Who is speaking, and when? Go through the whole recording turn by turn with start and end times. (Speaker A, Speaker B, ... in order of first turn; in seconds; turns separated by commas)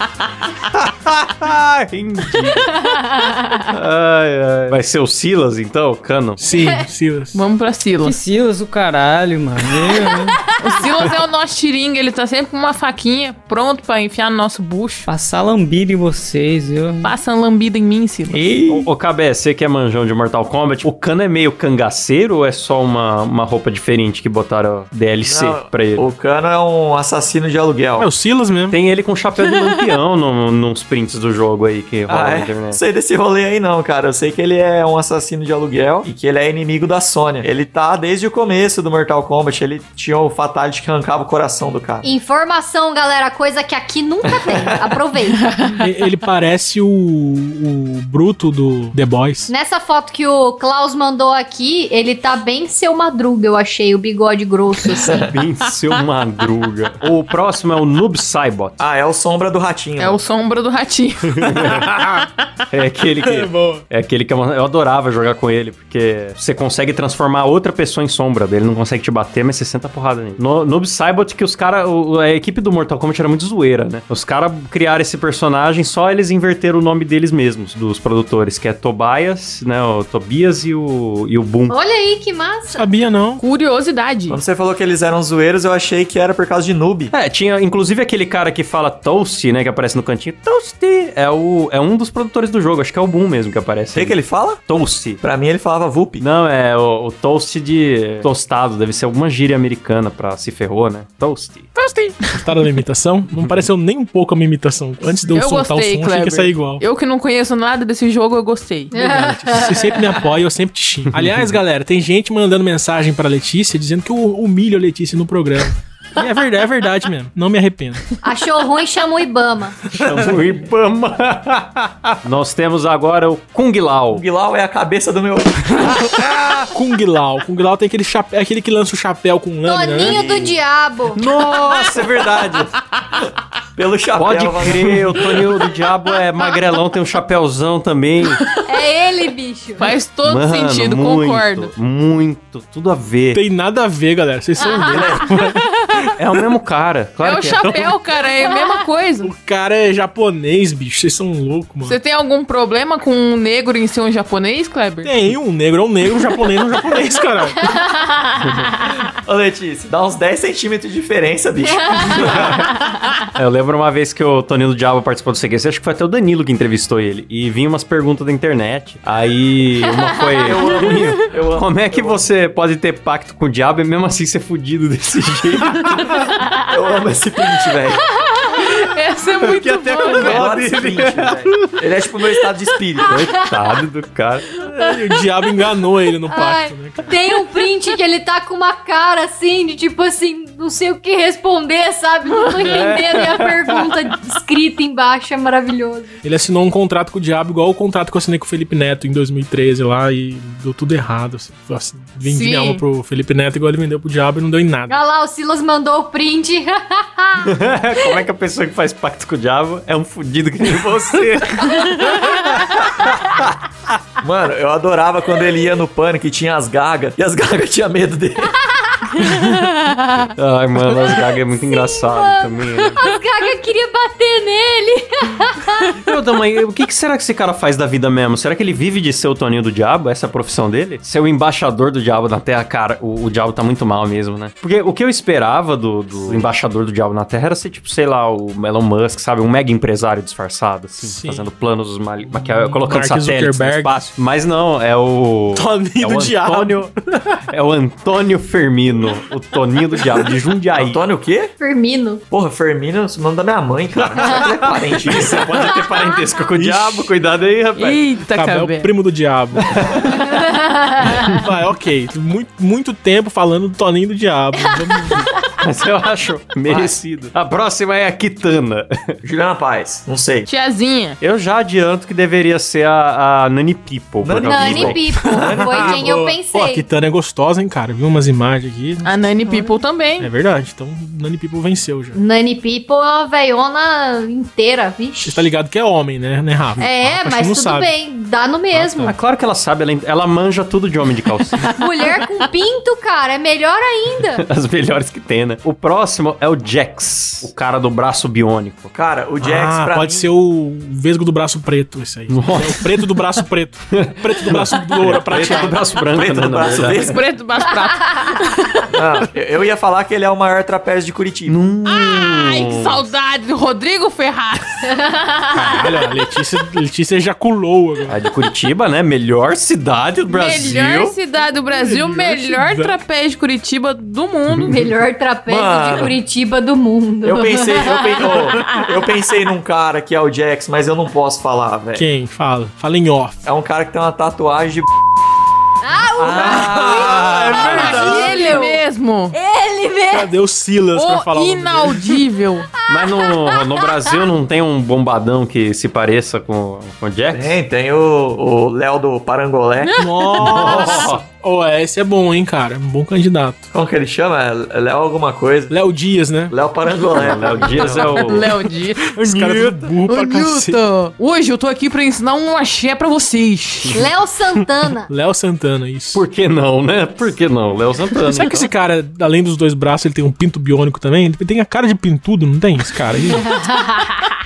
Speaker A: 0.6-2.9, Speaker B: 3.2-3.5, Speaker A: 3.6-6.4, Speaker C: 6.4-7.4, Speaker D: 7.3-8.2, Speaker E: 8.0-10.5, Speaker D: 10.5-15.1, Speaker E: 15.1-17.1, Speaker D: 17.0-18.4, Speaker F: 18.3-18.9, Speaker A: 18.7-26.1, Speaker F: 25.2-28.1, Speaker C: 28.0-28.8, Speaker A: 28.7-32.8, Speaker F: 32.1-42.0, Speaker B: 42.0-45.5, Speaker F: 44.3-45.0, Speaker D: 45.4-45.9, Speaker C: 45.7-49.5, Speaker B: 49.5-55.2, Speaker F: 55.1-55.4, Speaker A: 55.2-58.8, Speaker F: 58.8-60.2, Speaker D: 60.0-61.7, Speaker A: 61.4-62.1, Speaker C: 61.8-62.2, Speaker A: 62.7-81.8, Speaker C: 63.2-63.9, Speaker B: 81.7-82.9, Speaker C: 82.7-83.4, Speaker D: 83.4-84.4, Speaker F: 84.3-87.1, Speaker A: 87.1-95.2, Speaker F: 93.9-94.6, Speaker F: 95.2-96.2, Speaker A: 96.2-101.7, Speaker D: 101.8-102.4, Speaker C: 102.3-106.8, Speaker A: 103.3-103.7, Speaker D: 105.3-109.1, Speaker B: 108.9-110.1, Speaker C: 109.0-118.0, Speaker A: 111.1-111.6, Speaker B: 118.2-119.8, Speaker C: 119.9-120.3, Speaker A: 120.0-124.2, Speaker F: 124.1-126.2, Speaker A: 125.9-126.7, Speaker C: 126.7-130.2, Speaker B: 129.7-131.2, Speaker A: 130.0-130.6, Speaker A: 131.1-132.8, Speaker F: 133.8-135.2, Speaker A: 134.2-138.5, Speaker B: 138.6-140.0, Speaker D: 139.8-141.7, Speaker A: 140.2-143.4, Speaker C: 143.3-146.2, Speaker B: 144.6-145.1, Speaker F: 144.8-145.3, Speaker A: 146.2-147.9, Speaker D: 147.2-149.3, Speaker C: 149.2-152.0, Speaker D: 151.8-155.1, Speaker C: 155.0-157.7, Speaker B: 157.6-158.4, Speaker A: 158.5-158.7, Speaker F: 159.3-162.6, Speaker A: 162.1-162.7, Speaker A: 163.3-176.3, Speaker F: 170.4-172.3, Speaker F: 176.7-178.0, Speaker D: 178.6-180.5, Speaker A: 179.4-181.7, Speaker F: 180.1-183.2, Speaker A: 183.0-184.5, Speaker C: 184.6-187.1, Speaker B: 186.3-196.2, Speaker A: 192.5-193.8, Speaker C: 196.2-205.0, Speaker D: 202.2-202.8, Speaker B: 204.9-207.5, Speaker A: 207.4-214.0, Speaker F: 214.2-218.6, Speaker B: 218.9-219.5, Speaker A: 219.2-219.7, Speaker A: 220.2-223.1, Speaker B: 221.6-225.9, Speaker A: 226.0-246.9, Speaker C: 241.0-241.5, Speaker C: 242.2-244.0, Speaker C: 245.6-247.4, Speaker A: 247.5-251.0, Speaker F: 250.7-251.5, Speaker B: 251.6-252.2, Speaker F: 252.3-255.6, Speaker A: 254.0-258.1, Speaker C: 256.6-257.1, Speaker D: 257.8-258.9, Speaker C: 258.3-259.8, Speaker A: 259.6-260.4, Speaker B: 260.3-261.3, Speaker C: 261.1-265.4, Speaker B: 264.9-265.3, Speaker A: 265.6-269.2, Speaker F: 266.7-266.9, Speaker F: 269.2-270.5, Speaker D: 270.5-271.2, Speaker A: 271.2-275.1, Speaker F: 274.2-276.1, Speaker B: 274.4-276.9, Speaker C: 275.3-279.1, Speaker D: 279.0-280.3, Speaker C: 280.2-282.2, Speaker B: 282.1-285.5, Speaker C: 285.2-287.9, Speaker B: 286.8-289.1, Speaker A: 288.8-291.8, Speaker B: 291.8-294.4, Speaker A: 294.3-298.9, Speaker F: 298.9-300.3, Speaker C: 299.4-305.8, Speaker A: 302.3-303.2, Speaker A: 303.9-307.1, Speaker F: 306.1-307.2, Speaker D: 306.9-308.9, Speaker B: 308.0-308.4, Speaker F: 308.9-311.6, Speaker A: 311.5-313.1, Speaker D: 311.9-314.9, Speaker B: 314.9-316.0, Speaker C: 315.5-318.2, Speaker A: 318.1-321.2, Speaker D: 320.3-324.8, Speaker C: 321.7-322.9, Speaker A: 324.5-324.8, Speaker B: 324.7-328.6, Speaker F: 325.5-326.2, Speaker F: 327.2-332.1, Speaker C: 331.9-333.4, Speaker F: 333.4-334.9, Speaker B: 335.8-340.3, Speaker A: 336.2-338.3, Speaker F: 336.2-337.9, Speaker C: 336.5-338.5, Speaker D: 337.6-339.4, Speaker C: 340.1-342.1, Speaker D: 340.9-342.7, Speaker B: 342.8-343.9, Speaker A: 342.9-347.6, Speaker F: 347.3-349.9, Speaker D: 349.8-351.1, Speaker C: 350.0-353.7, Speaker A: 350.4-351.2, Speaker F: 353.7-355.7, Speaker C: 355.7-356.5, Speaker F: 356.5-358.3, Speaker A: 357.2-358.6, Speaker D: 357.7-359.1, Speaker A: 359.2-360.0, Speaker C: 359.2-360.8, Speaker D: 360.1-364.0, Speaker B: 363.9-365.1, Speaker C: 365.1-366.2, Speaker A: 366.1-368.7, Speaker C: 368.3-373.6, Speaker B: 373.4-374.1